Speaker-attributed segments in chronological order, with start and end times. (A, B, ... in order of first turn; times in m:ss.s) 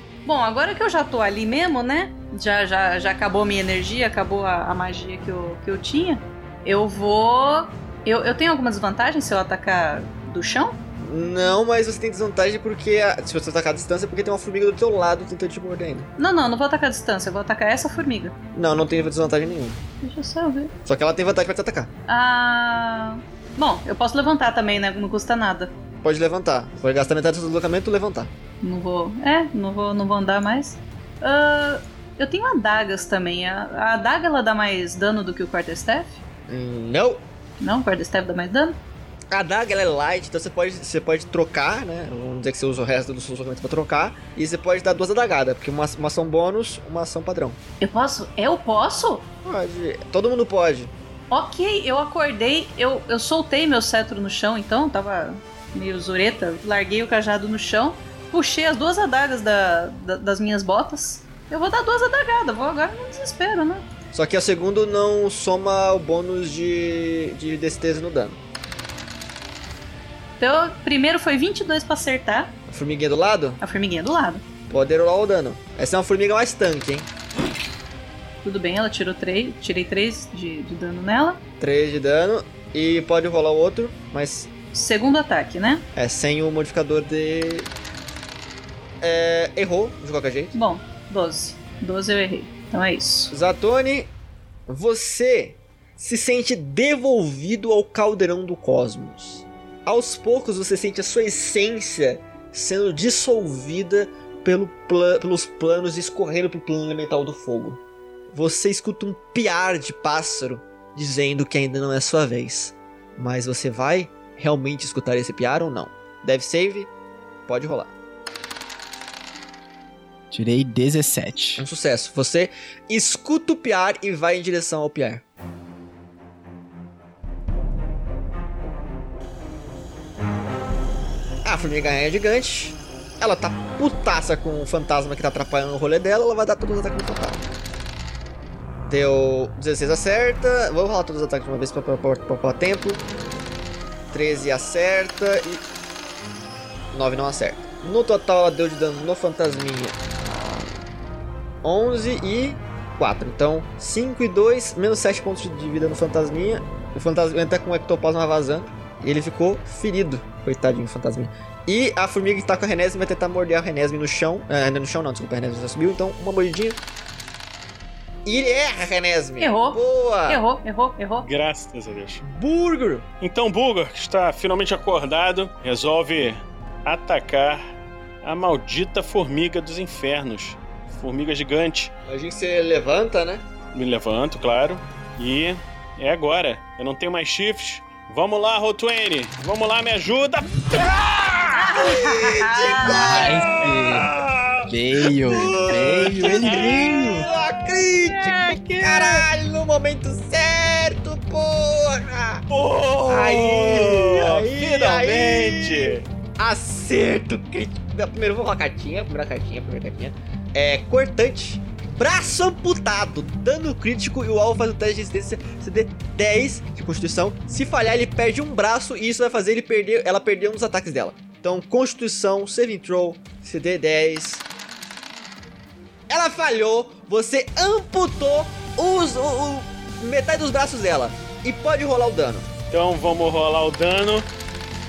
0:00.2-0:10.8 A
0:11.0-0:16.1 B
0:16.2-0:18.3 A
0:18.5-0:19.8 B
0:20.0-0:20.7 A
0:20.8-0:21.9 B
0:22.1-0:25.7 A
0:26.0-0:28.3 B
0:28.6-0:36.2 A
0:36.5-0:37.2 B
0:37.6-0:38.8 A
0:39.3-0:47.6 B
0:47.8-0:49.2 A
0:49.4-0:50.9 B
0:51.3-1:03.8 A
1:04.1-1:08.4 B
1:10.4-1:12.5 A
1:12.7-1:13.6 B
1:13.6-1:14.4 A
1:14.7-1:17.1 B
1:18.4-1:21.4 A
1:21.6-1:24.5 B
1:24.7-1:25.8 A
1:25.9-1:27.7 B
1:29.0-1:30.5 B
1:30.5-1:33.3 A
1:33.3-1:34.1 B
1:34.7-1:47.8 B
1:48.3-1:56.9 B
1:57.5-1:57.9 B
2:00.3-2:01.6 C
2:01.6-2:05.2 B
2:11.4-2:17.4 B
2:18.9-2:23.0 B
2:24.1-2:25.6 B
2:26.9-2:30.6 B
2:31.6-2:46.8 B
2:48.2-2:50.4 B
2:49.4-2:51.3 A
2:51.2-2:52.2 D
2:52.2-2:53.0 B
2:53.2-2:57.6 D
2:58.2-3:01.9 D
3:02.1-3:03.4 B
3:03.7-3:11.5 D
3:11.5-3:13.4 A
3:11.7-3:13.4 B
3:12.8-3:14.1 C
3:13.2-3:14.7 D
3:14.6-3:17.3 C
3:15.3-3:19.3 D
3:15.4-3:22.4 B
3:22.5-3:26.0 D
3:23.1-3:44.4 B
3:46.1-3:52.5 B
3:52.7-3:54.3 D